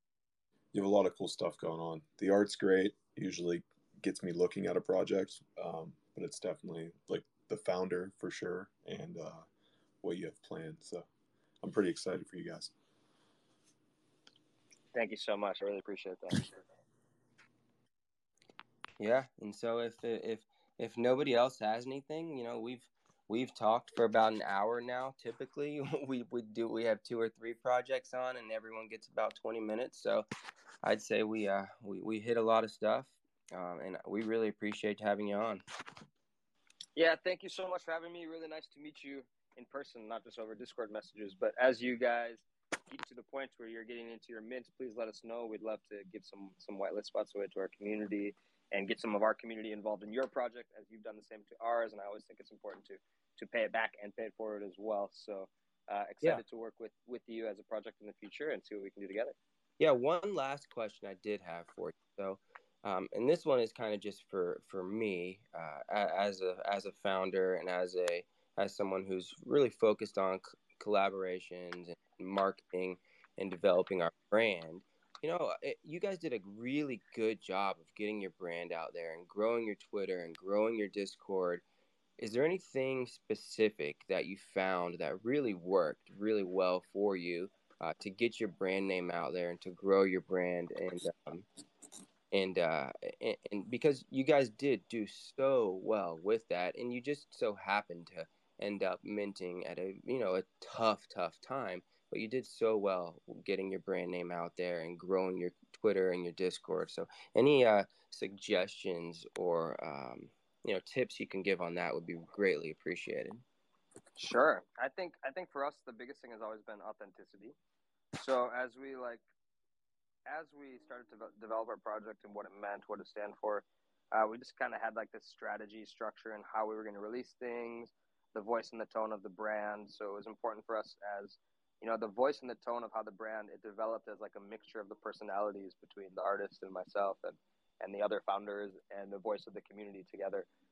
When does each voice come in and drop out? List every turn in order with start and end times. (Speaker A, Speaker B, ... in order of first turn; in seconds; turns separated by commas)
Speaker A: 0.7-9.5, Speaker A: 10.0-11.1, Speaker A: 11.6-12.7, Speaker B: 14.9-16.6, Speaker C: 19.0-30.3, Speaker C: 30.8-35.6, Speaker B: 37.0-59.4, Speaker C: 59.8-81.6, Speaker C: 82.2-91.5, Speaker C: 92.3-113.4, Speaker B: 114.2-117.5, Speaker B: 118.2-119.2, Speaker B: 120.3-140.5